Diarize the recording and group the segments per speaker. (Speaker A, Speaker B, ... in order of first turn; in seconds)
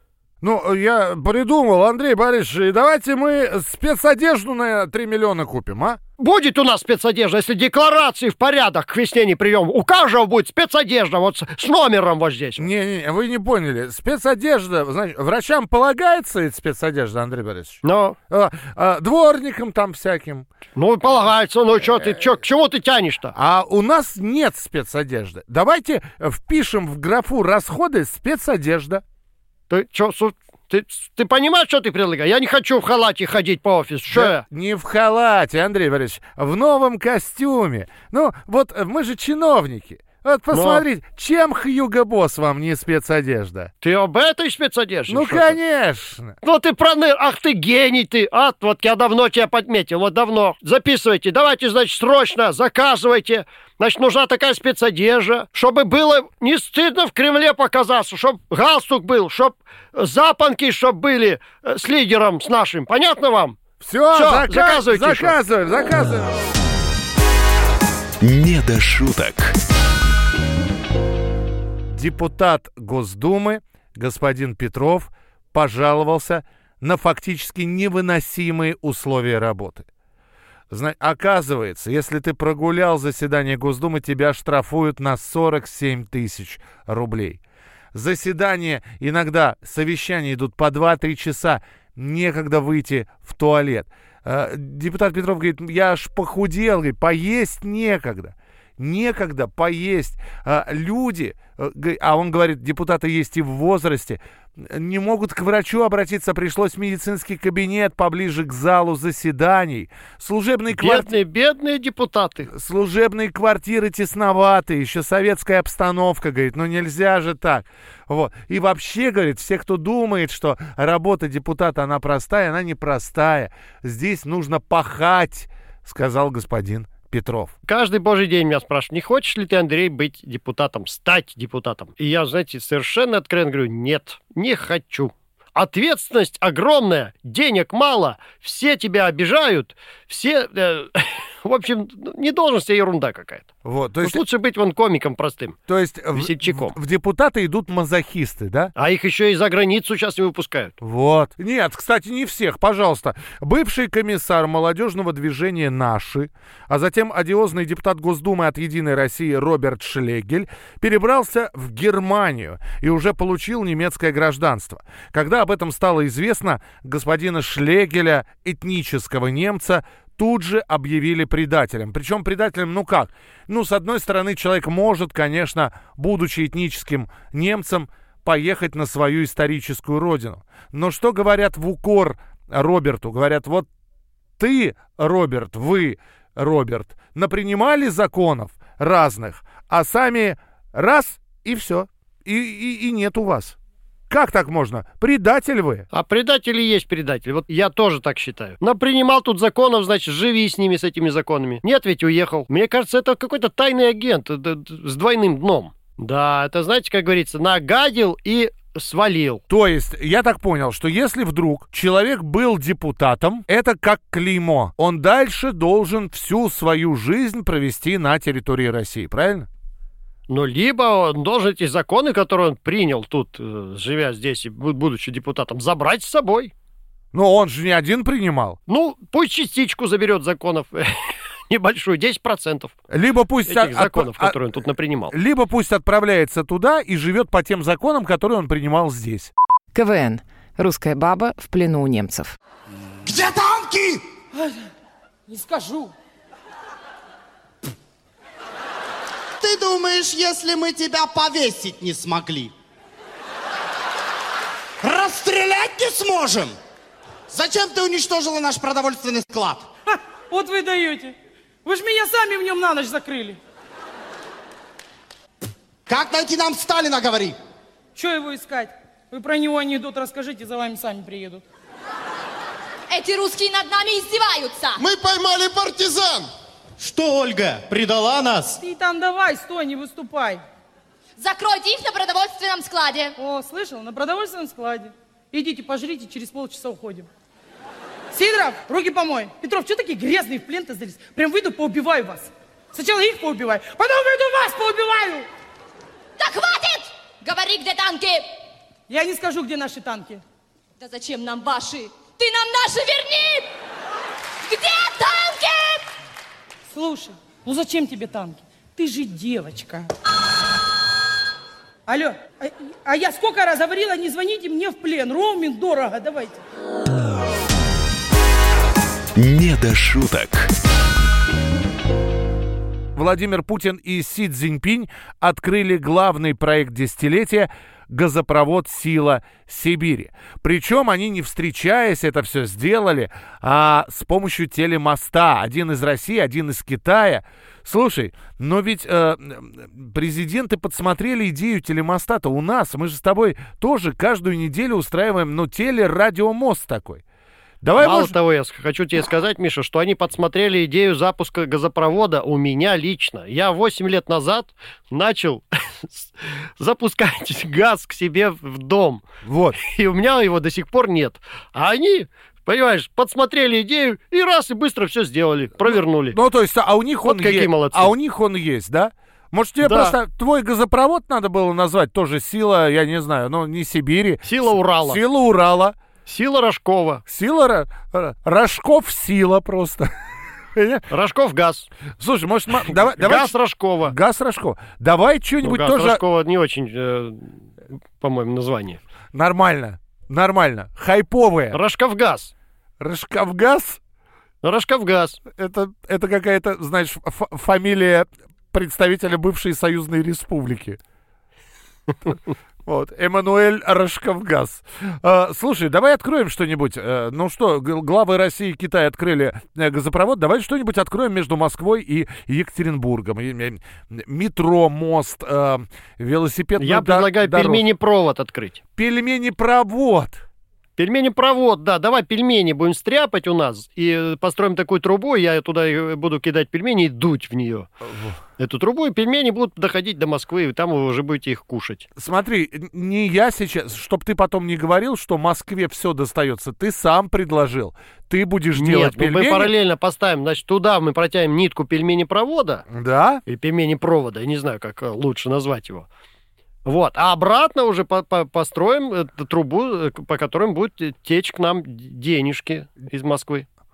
Speaker A: 0.4-6.0, 12.6-20.5, 21.8-22.2, 23.3-29.0, 34.1-43.7, 45.1-46.3, 63.8-66.3, 71.9-79.9, 80.7-87.4, 87.9-111.1, 112.5-127.5, 143.6-144.2, 145.7-148.7, 150.8-183.7, 184.4-193.6, 194.1-195.8, 209.5-219.5, 227.1-228.6, 232.9-234.4, 235.1-239.3, 322.9-347.0, 347.6-348.1, 359.2-359.6, 365.6-375.8, 377.1-379.9, 380.5-380.8, 382.0-386.0, 389.1-391.6, 392.8-393.8, 395.3-400.8, 402.6-417.6, 418.8-420.2, 427.8-428.1, 431.9-439.5, 442.7-443.2
Speaker B: 6.2-12.7, 17.8-18.2, 20.8-23.3, 29.7-34.4, 40.5-40.8, 43.8-45.6, 46.4-63.6, 64.1-65.3, 110.7-112.5, 127.7-143.5, 144.0-145.6, 146.1-146.8, 148.8-150.8, 195.9-209.4, 220.3-226.5, 228.7-230.9, 231.5-232.7, 233.5-235.1, 347.8-359.0, 359.6-366.2, 367.0-367.9, 369.6-369.9, 374.2-375.0, 376.1-377.0, 380.9-381.7, 382.7-383.9, 385.4-387.3, 388.0-388.8, 391.5-392.3, 394.4-395.2, 416.6-418.6, 420.8-427.7, 428.4-431.9, 438.5-442.6, 443.3-445.9, 446.6-453.5
Speaker C: 68.2-69.5, 319.1-320.5
Speaker D: 239.7-242.3
Speaker E: 243.0-244.0, 249.4-252.5, 254.8-256.6, 257.3-259.7, 265.9-267.3, 274.8-276.2
Speaker F: 245.3-245.9, 259.9-261.1, 261.6-263.4, 267.9-271.4, 278.6-280.4, 283.2-287.1, 288.1-295.2, 298.9-300.2, 306.7-309.9, 311.9-316.4
Speaker G: 272.9-274.8, 281.2-283.1, 296.2-298.3, 300.8-303.5, 304.4-305.8